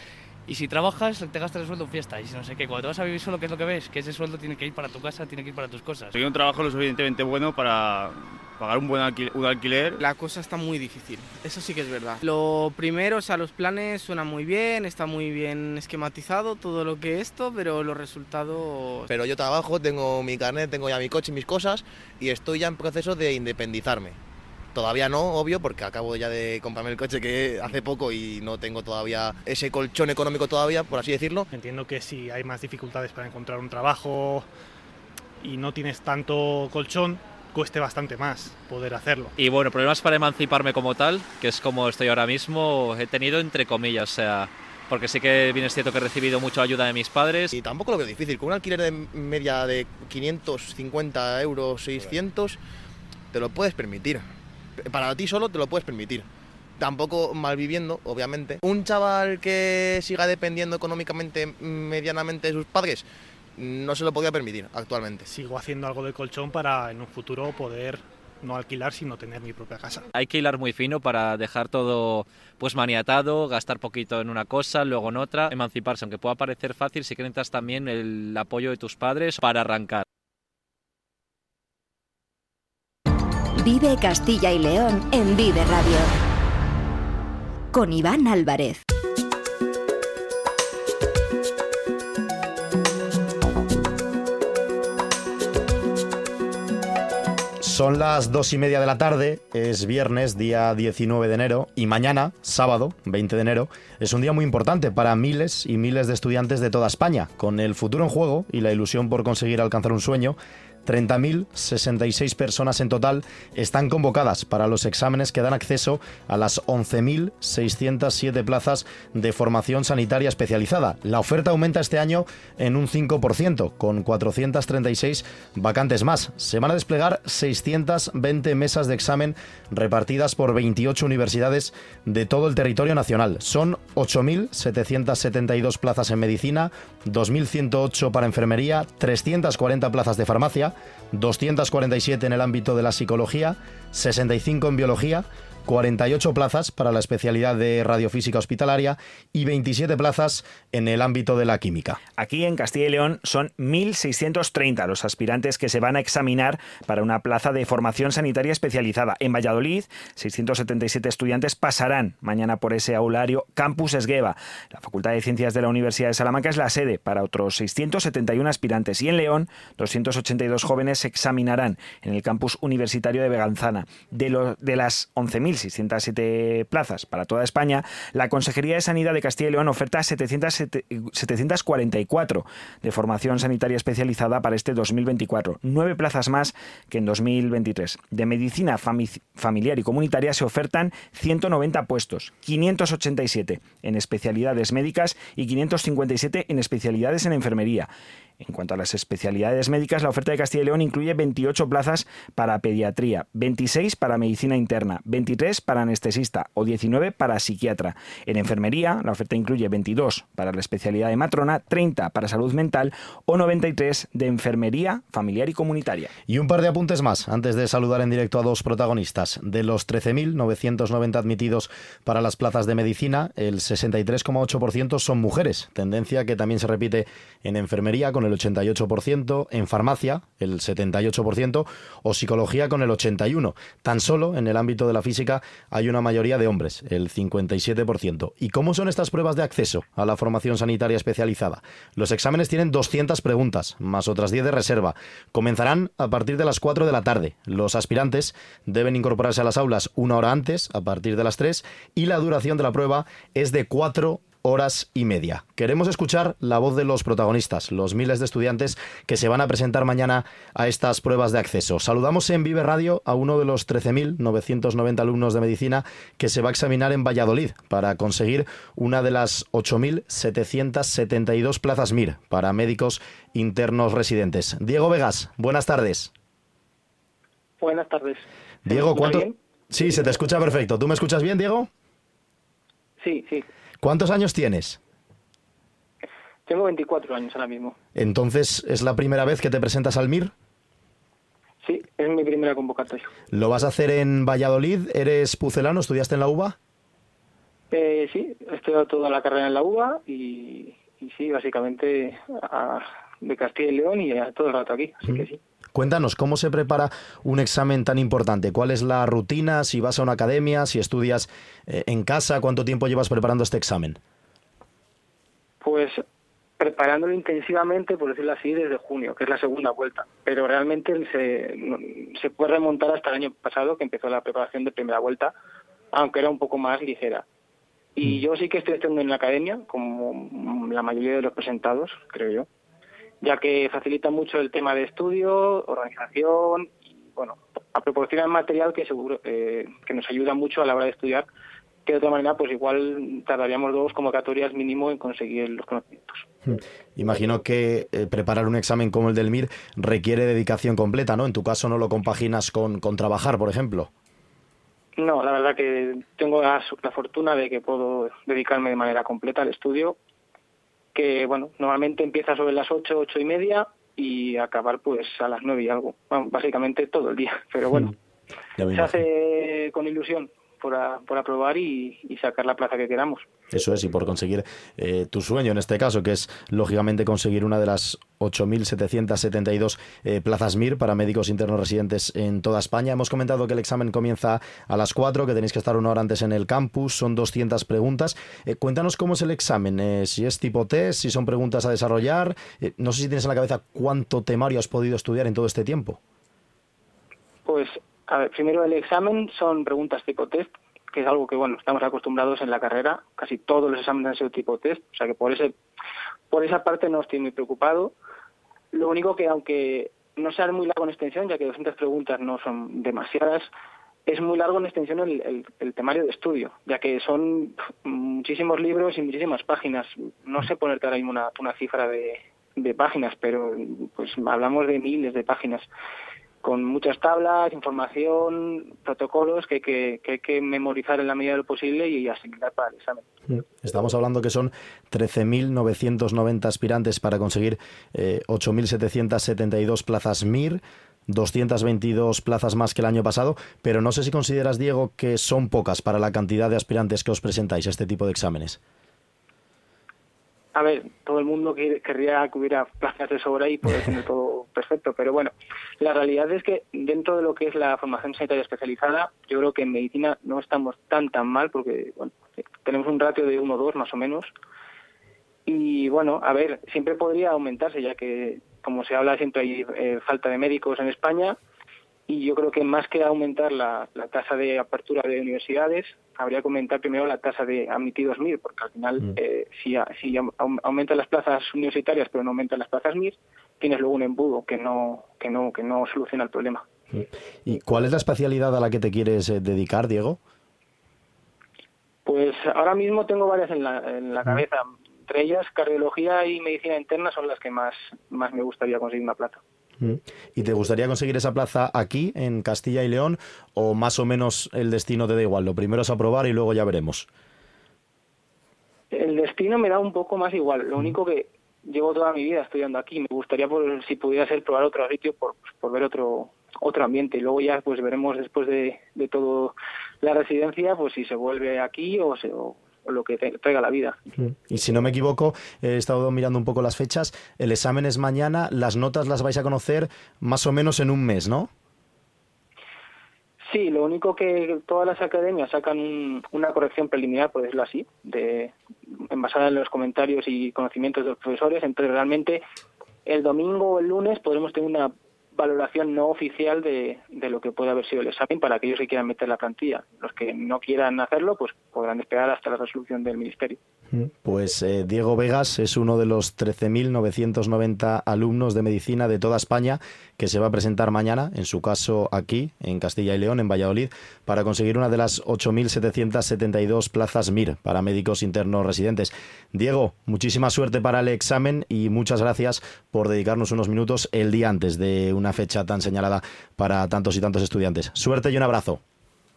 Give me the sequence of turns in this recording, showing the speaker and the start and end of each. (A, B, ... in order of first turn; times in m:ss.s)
0:00.4-0:06.2 A
0:06.2-0:10.0 B
0:10.0-0:19.1 C
0:19.1-0:24.2 D
0:24.7-0:31.5 D
0:31.5-0:34.5 E
0:35.4-0:39.3 E
0:39.4-0:47.5 F
0:47.5-0:52.6 D
0:53.3-0:54.2 D
0:54.8-0:56.2 D
0:56.8-1:03.0 D
1:03.6-1:05.3 D
1:05.3-1:10.0 E
1:10.1-1:20.0 F
1:23.6-1:26.1 G
1:27.7-1:28.8 G
1:37.6-2:32.0 H
2:32.2-3:17.9 I
3:18.4-3:36.1 I
3:36.3-4:36.1 H
4:37.6-4:39.4 J
4:38.6-4:41.7 H
4:43.0-4:43.4 J
4:43.8-4:44.8 H
4:46.5-4:47.8 J
4:47.9-4:50.3 H
4:51.6-4:53.1 J
4:53.3-4:56.6 H
4:57.7-5:05.4 J
5:05.7-5:14.0 H
5:15.6-5:16.0 J
5:16.6-5:25.3 J
5:25.9-5:27.2 J
5:28.0-5:32.5 J
5:33.2-5:41.3 J
5:41.8-5:46.2 J
5:46.4-5:53.9 H
5:55.0-6:00.0 J
6:00.9-6:07.9 J
6:08.6-6:09.0 H
6:08.7-6:13.3 J
6:13.5-6:36.0 H
6:37.4-6:45.5 J
6:46.3-6:47.9 J
6:48.7-6:53.5 J
6:54.1-7:05.7 J
7:06.4-7:13.1 J
7:13.3-7:28.6 H
7:30.5-7:44.3 J
7:45.5-7:51.4 J
7:52.1-8:06.6 J
8:06.9-8:10.2 H
8:12.0-8:19.4 J
8:19.8-8:27.1 H
8:28.9-8:44.0 J
8:44.2-8:51.5 H
8:53.5-9:02.4 J
9:03.0-9:13.6 J
9:13.9-9:38.8 H